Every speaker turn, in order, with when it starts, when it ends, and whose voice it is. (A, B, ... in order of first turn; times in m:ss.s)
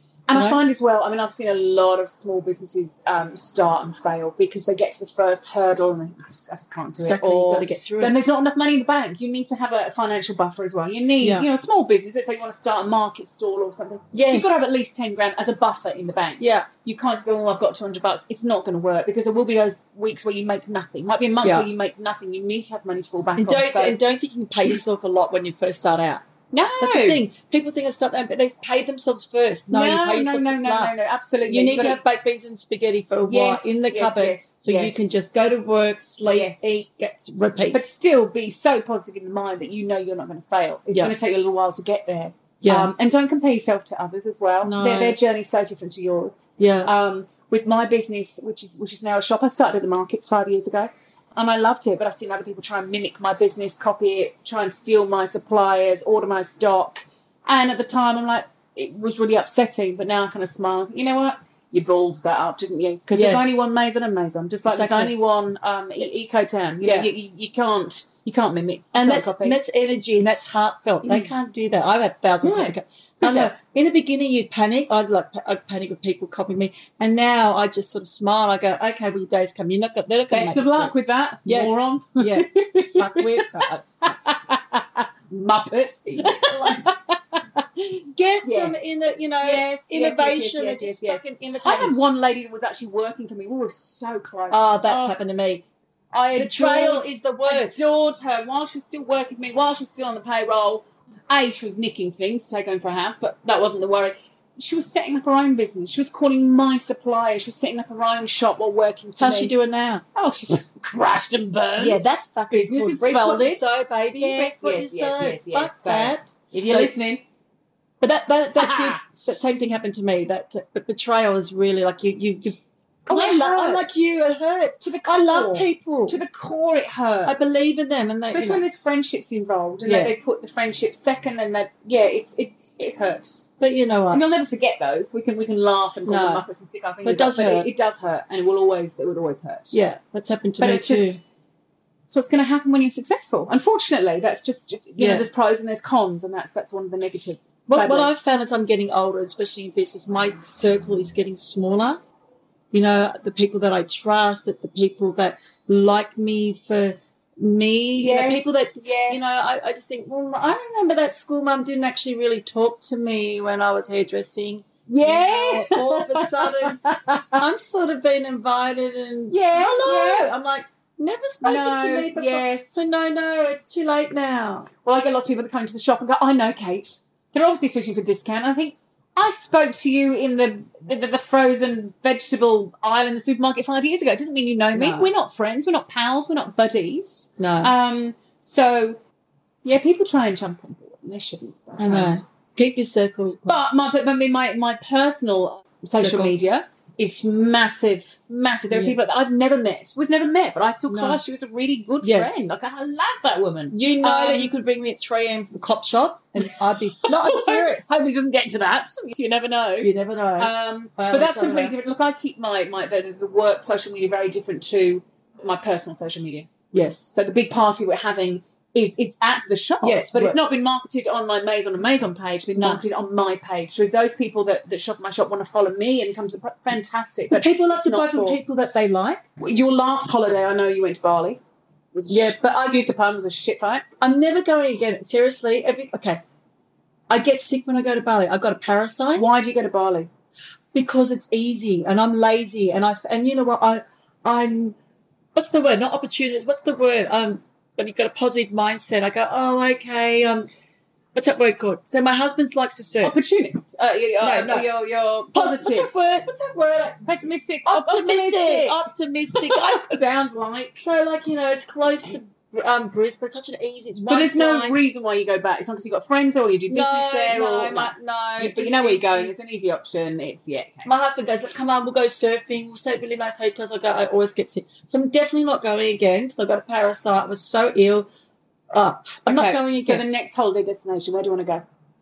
0:00.3-0:24.0 A
0:00.3-0:00.6 B
0:07.0-0:08.2 B
0:11.2-0:11.5 B
0:14.1-0:14.6 B
0:16.4-0:16.7 B
0:21.4-0:21.7 B
0:23.4-0:26.2 B
0:26.5-0:27.2 A
0:26.8-0:30.9 B
0:29.7-0:32.0 A
0:31.5-0:37.8 B
0:33.3-0:35.1 A
0:36.3-0:36.8 A
0:37.7-1:09.6 A
0:42.6-0:42.9 B
0:44.6-0:45.2 B
0:46.6-0:46.9 B
1:03.1-1:03.4 B
1:04.7-1:05.1 B
1:06.8-1:07.1 B
1:08.9-1:20.9 B
1:11.0-1:11.3 A
1:12.4-1:13.5 A
1:20.3-1:28.8 A
1:21.4-1:23.8 B
1:26.1-1:26.8 B
1:28.1-1:32.0 B
1:29.4-1:35.2 A
1:34.5-1:35.6 B
1:36.1-1:49.5 A
1:36.4-1:37.9 B
1:49.2-1:50.0 B
1:50.2-1:57.2 A
1:51.8-1:56.9 B
1:58.0-2:06.2 B
1:58.6-1:59.1 A
2:03.1-2:04.0 A
2:04.8-2:07.8 A
2:07.3-2:08.6 B
2:08.3-2:13.5 A
2:09.8-2:10.1 B
2:13.6-2:14.2 B
2:14.1-2:19.8 A
2:16.1-2:16.4 B
2:17.0-2:17.7 B
2:19.7-2:21.2 B
2:20.6-2:21.2 A
2:22.1-2:28.1 A
2:25.0-2:25.3 B
2:27.7-2:32.0 B
2:32.7-2:46.8 B
2:38.0-2:39.4 A
2:44.9-2:47.4 A
2:47.3-2:54.7 B
2:49.3-2:50.3 A
2:51.4-2:52.7 A
2:54.8-3:09.0 A
3:04.7-3:05.1 B
3:07.4-3:07.7 B
3:09.6-3:12.2 A
3:11.8-3:13.6 B
3:13.5-3:24.5 A
3:16.0-3:16.4 B
3:18.7-3:19.0 B
3:20.9-3:21.2 B
3:22.0-3:22.5 B
3:23.7-3:27.9 B
3:26.4-3:36.5 A
3:29.8-3:31.7 B
3:36.7-3:37.1 B
3:37.1-3:48.4 A
3:39.8-3:40.4 B
3:42.6-3:42.8 B
3:47.3-3:49.2 B
3:49.4-3:51.4 A
3:51.9-3:53.8 A
3:52.1-3:52.7 B
3:54.0-3:56.2 B
3:57.1-3:59.2 B
3:59.2-4:00.1 A
4:00.7-4:04.8 B
4:05.4-4:10.5 B
4:11.2-4:13.1 B
4:13.0-4:15.9 A
4:14.2-4:14.7 B
4:15.3-4:17.1 B
4:17.0-4:20.8 A
4:17.7-4:20.0 B
4:20.8-4:24.8 B
4:24.1-4:31.0 A
4:26.7-4:29.3 B
4:30.8-4:38.1 B
4:38.7-4:40.0 B
4:39.3-4:41.6 A